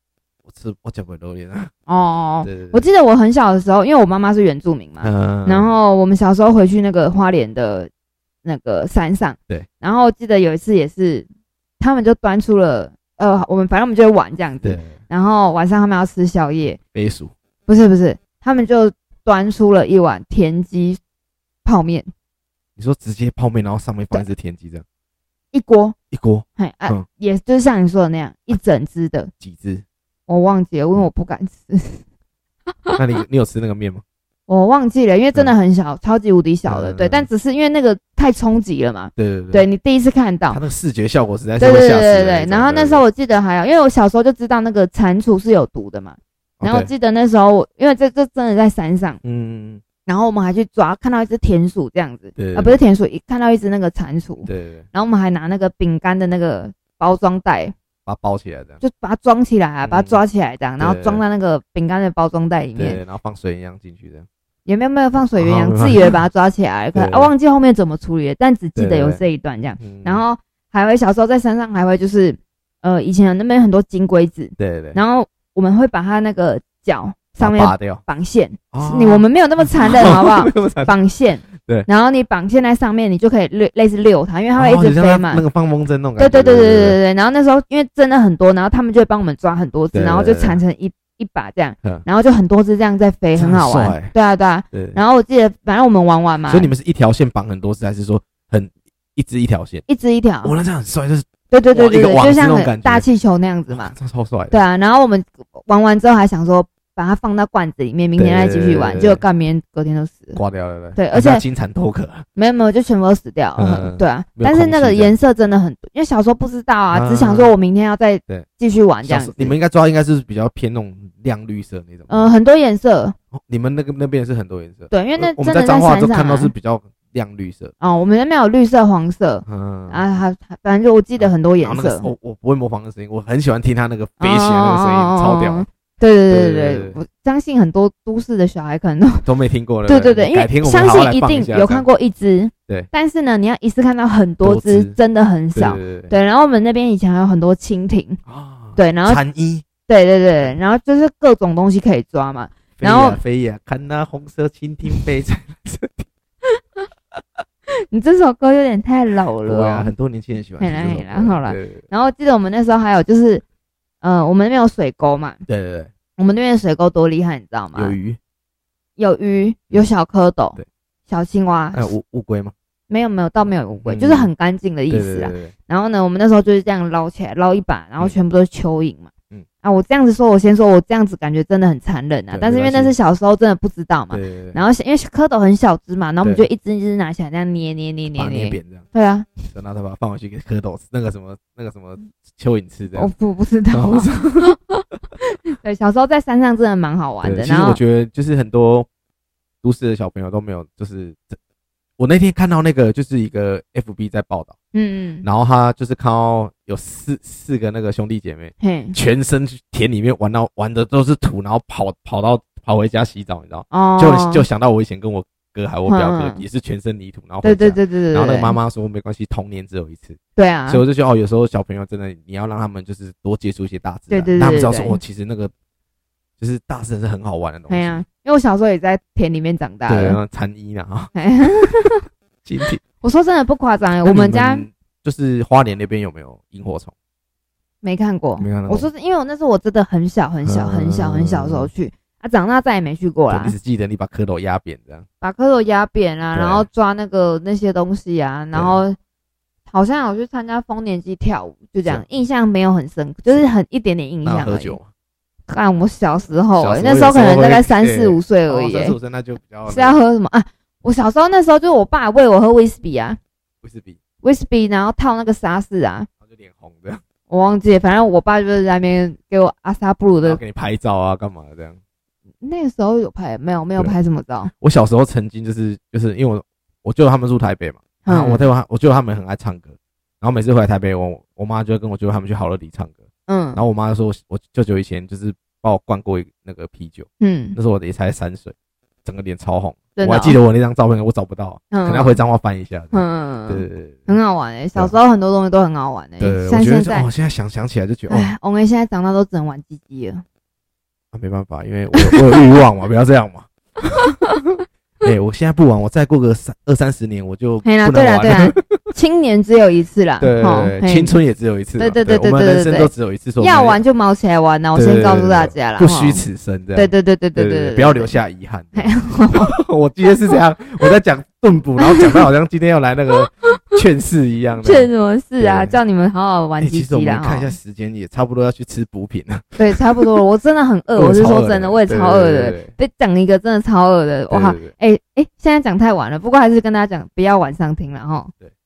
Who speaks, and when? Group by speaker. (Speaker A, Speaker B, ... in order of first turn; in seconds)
Speaker A: 0.5-1.7, 2.4-2.9, 5.0-5.7, 14.6-15.0, 16.9-17.3, 22.8-24.8, 26.1-27.1, 29.4-29.8, 33.0-34.0, 36.7-37.3, 39.2-39.7, 40.5-43.0, 46.6-46.9, 49.2-49.8, 52.4-52.8, 54.4-54.9, 58.0-58.8, 59.8-60.2, 60.8-61.2, 62.8-64.3, 65.3-66.2, 66.9-67.3, 68.8-69.2, 69.8-70.2, 74.6-75.0, 77.4-78.0, 78.7-81.0, 81.6-81.9, 84.5-87.0, 89.9-90.6, 93.4-94.1, 94.7-95.0, 96.5-99.8, 100.4-103.1, 103.7-104.6, 108.2-109.2, 110.3-112.2, 113.6-115.2, 116.9-117.5, 119.0-122.3, 123.3-127.7, 129.5-130.0, 131.2-135.7, 136.3-137.0, 139.2-141.9, 144.4-145.0, 145.5-146.2, 148.3-149.7, 152.8-156.1, 159.4-161.8, 165.5-165.9, 167.8-168.2, 171.7-172.5, 173.8-174.3, 174.9-175.5, 182.3-182.9, 184.1-184.6, 188.1-188.9, 189.5-193.1, 193.7-194.6, 197.2-198.9, 199.6-201.4, 202.0-204.6, 205.2-225.5, 226.4-228.0, 229.9-231.7, 232.4-232.8, 234.0-236.9, 238.4-238.9, 240.4-241.7, 243.3-245.1, 246.3-246.7, 248.5-248.8, 254.2-254.9, 256.6-260.0, 263.6-264.0, 266.2-267.0, 270.2-271.8, 274.6-294.1, 296.2-298.3, 301.1-303.5, 305.0-308.9, 310.2-313.8, 314.8-325.8, 326.6-330.1, 330.9-332.7, 334.3-334.7
Speaker B: 1.9-7.9, 8.4-11.3, 11.8-16.8, 17.7-21.0, 21.6-22.1, 25.5-26.0, 26.6-29.3, 30.3-32.0, 34.5-40.6, 41.6-49.2, 50.1-57.7, 58.8-63.0, 64.7-85.4, 86.2-96.7, 99.9-100.5, 101.5-104.0, 104.5-110.4, 111.0-111.4, 112.4-119.5, 122.1-123.2, 124.9-126.5, 127.8-132.1, 134.2-139.3, 139.9-148.2, 148.8-149.2, 149.9-153.2, 157.7-159.9, 160.6-163.4, 164.0-165.4, 166.2-167.9, 169.0-170.6, 171.1-171.9, 172.9-179.1, 179.6-189.5, 192.9-194.8, 195.6-197.8, 204.7-205.3, 208.6-209.0, 213.7-214.4, 215.9-216.4, 217.4-218.6, 220.4-220.8, 224.1-225.0, 227.7-230.2, 231.2-232.0, 233.0-234.7, 237.8-243.6, 245.2-249.0, 249.7-254.8, 255.5-259.0, 259.7-263.2, 264.2-266.1, 267.3-270.4, 272.4-274.5, 278.1-278.4, 283.3-283.6, 287.2-287.6, 290.0-290.4, 291.7-292.2, 292.9-297.1, 298.1-300.2, 307.6-311.2, 311.8-316.2, 316.8-318.1, 318.8-319.5, 321.8-322.2, 324.6-327.5, 329.6-338.3